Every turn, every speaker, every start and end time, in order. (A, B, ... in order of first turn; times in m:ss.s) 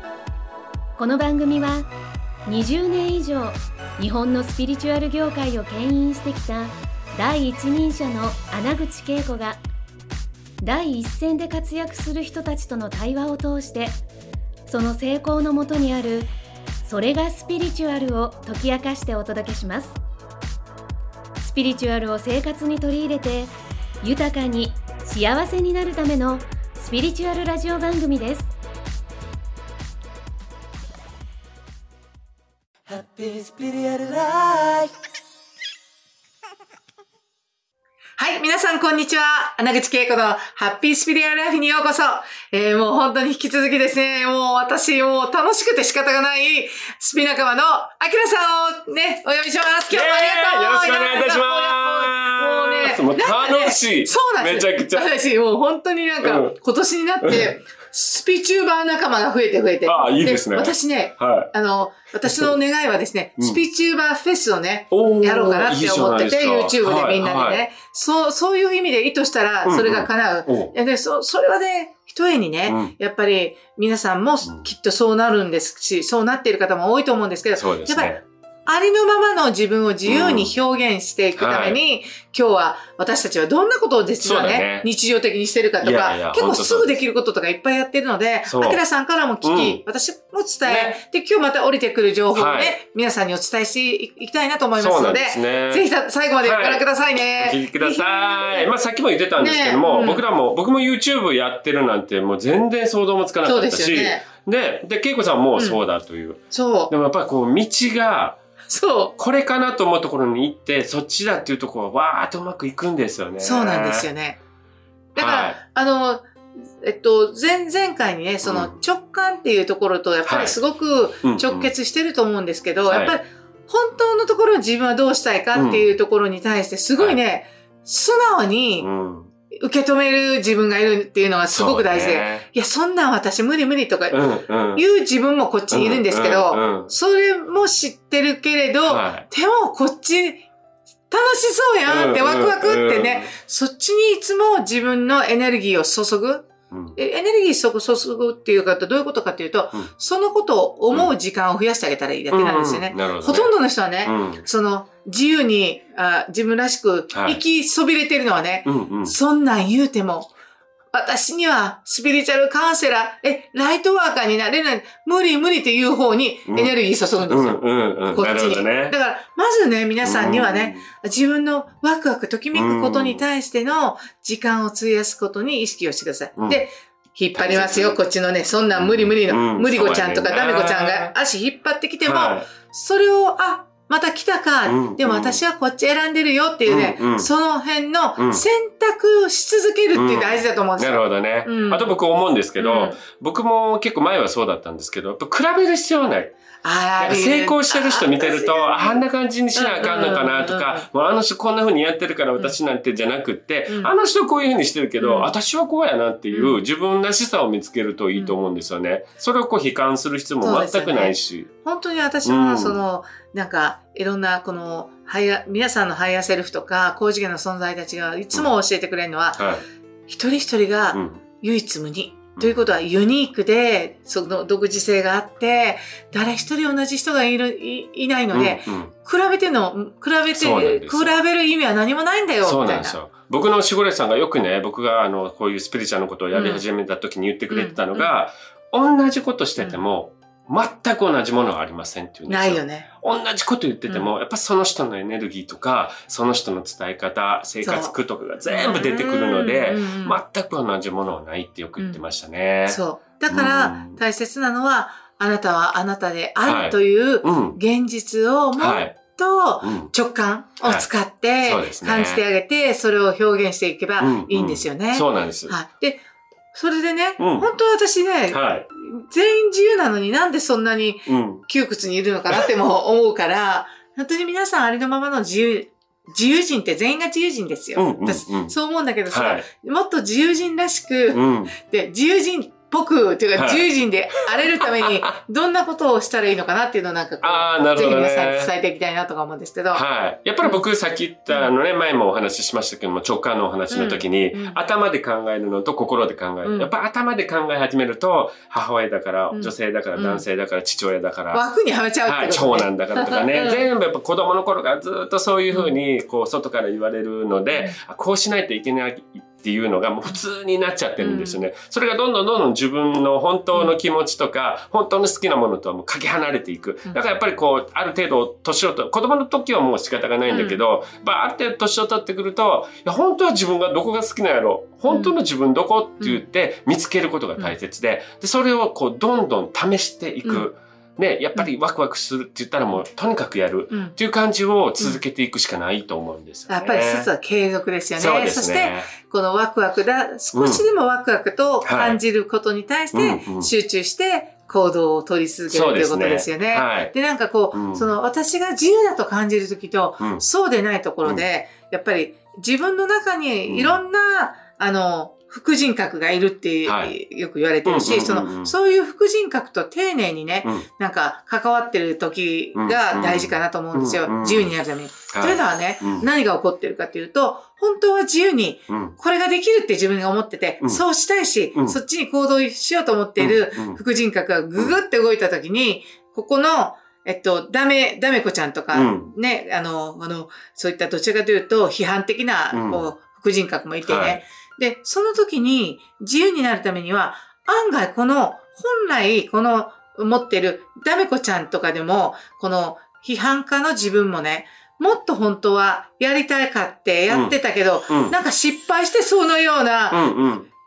0:01.0-0:01.9 A
0:02.5-0:09.6 A
0:10.6-0:14.0 A
0:14.7-0:16.3 A
0:16.8-0:20.0 A
0:21.4-0:28.5 A
0:32.9-0:34.9 B
0:38.2-1:38.7 C
0:49.9-0:55.1 D
0:56.2-0:56.6 D
0:57.2-0:57.5 D
0:59.8-1:01.5 D
1:02.2-1:02.6 D
1:04.9-1:07.6 D
1:09.6-1:10.7 D
1:12.7-1:12.9 D
1:17.6-1:18.2 D
1:20.0-1:20.5 D
1:21.3-1:21.8 D
1:24.2-1:24.9 D
1:25.8-1:27.0 D
1:28.4-1:28.8 D
1:29.4-1:29.8 D
1:30.6-1:31.0 D
1:32.3-1:32.8 D
1:34.8-1:35.9 D
1:36.4-1:36.9 D
1:37.4-1:48.4 D
1:39.4-1:40.2 C
1:43.4-1:44.3 C
1:45.6-1:45.8 C
1:46.5-1:46.9 C
1:48.7-1:49.2 C
1:49.2-1:54.1 D
1:53.4-1:54.4 C
1:55.2-1:56.3 C
1:55.2-1:55.6 D
1:56.8-2:08.9 C
1:58.4-1:58.8 D
2:00.3-2:00.6 D
2:01.2-2:01.7 D
2:02.9-2:03.2 D
2:05.5-2:05.9 D
2:08.8-2:09.3 D
2:09.5-2:14.2 C
2:11.5-2:12.5 D
2:14.1-2:14.8 D
2:14.7-2:20.4 C
2:15.7-2:16.9 D
2:18.8-2:19.3 D
2:21.1-2:40.3 C
2:21.8-2:23.3 D
2:26.7-2:27.0 D
2:32.3-2:34.4 D
2:37.1-2:37.4 D
2:38.6-2:39.2 D
2:40.9-3:11.9 C
2:46.5-2:49.0 D
2:50.0-2:50.9 D
2:52.5-2:53.2 D
2:56.4-2:56.6 D
2:57.3-2:58.0 D
2:58.7-3:01.1 D
3:02.0-3:02.5 D
3:04.7-3:05.4 D
3:06.7-3:07.3 D
3:08.2-3:08.4 D
3:09.9-3:16.3 D
3:12.6-3:13.0 C
3:16.6-3:19.0 C
3:17.0-3:31.5 D
3:19.5-3:20.9 C
3:23.7-3:23.9 C
3:25.0-3:25.3 C
3:26.3-3:26.6 C
3:30.4-3:39.5 C
3:32.2-3:32.8 D
3:39.4-3:39.6 D
3:40.1-3:53.0 C
3:40.9-3:41.2 D
3:42.4-3:42.7 D
3:48.3-3:48.9 D
3:50.3-3:51.1 D
3:52.4-4:14.0 D
3:56.3-3:56.6 C
3:57.5-3:58.2 C
4:02.3-4:02.9 C
4:07.6-4:10.2 C
4:11.8-4:12.0 C
4:12.7-4:49.8 C
4:16.4-4:17.6 D
4:18.6-4:19.0 D
4:19.6-4:19.9 D
4:20.6-4:20.9 D
4:21.4-4:22.2 D
4:24.0-4:25.6 D
4:27.2-4:27.5 D
4:28.3-4:28.6 D
4:31.1-4:31.4 D
4:37.8-4:38.6 D
4:39.1-4:39.4 D
4:41.1-4:41.6 D
4:43.4-4:43.7 D
4:47.2-4:48.5 D
4:49.7-5:01.4 D
4:53.7-4:54.6 C
4:56.4-4:56.7 C
4:59.3-5:00.2 C
5:01.3-5:03.7 C
5:02.0-5:37.1 D
5:05.5-5:05.8 C
5:07.5-5:07.8 C
5:11.0-5:11.4 C
5:13.5-5:13.8 C
5:20.3-5:20.6 C
5:24.9-5:25.1 C
5:26.0-5:26.2 C
5:30.2-5:30.5 C
5:33.7-5:34.0 C
5:36.5-6:40.1 C
5:38.0-5:38.9 D
5:40.3-5:40.6 D
5:41.6-5:42.0 D
5:42.9-5:43.5 D
5:45.5-5:46.9 D
5:47.5-5:47.9 D
5:50.0-5:50.2 D
5:53.5-5:53.8 D
5:56.6-5:56.9 D
5:57.6-5:58.5 D
6:02.6-6:04.5 D
6:05.1-6:06.1 D
6:08.7-6:08.9 D
6:13.2-6:13.8 D
6:18.7-6:19.1 D
6:22.5-6:22.9 D
6:23.9-6:24.2 D
6:37.1-6:37.4 D
6:37.9-6:38.2 D
6:39.9-6:40.5 D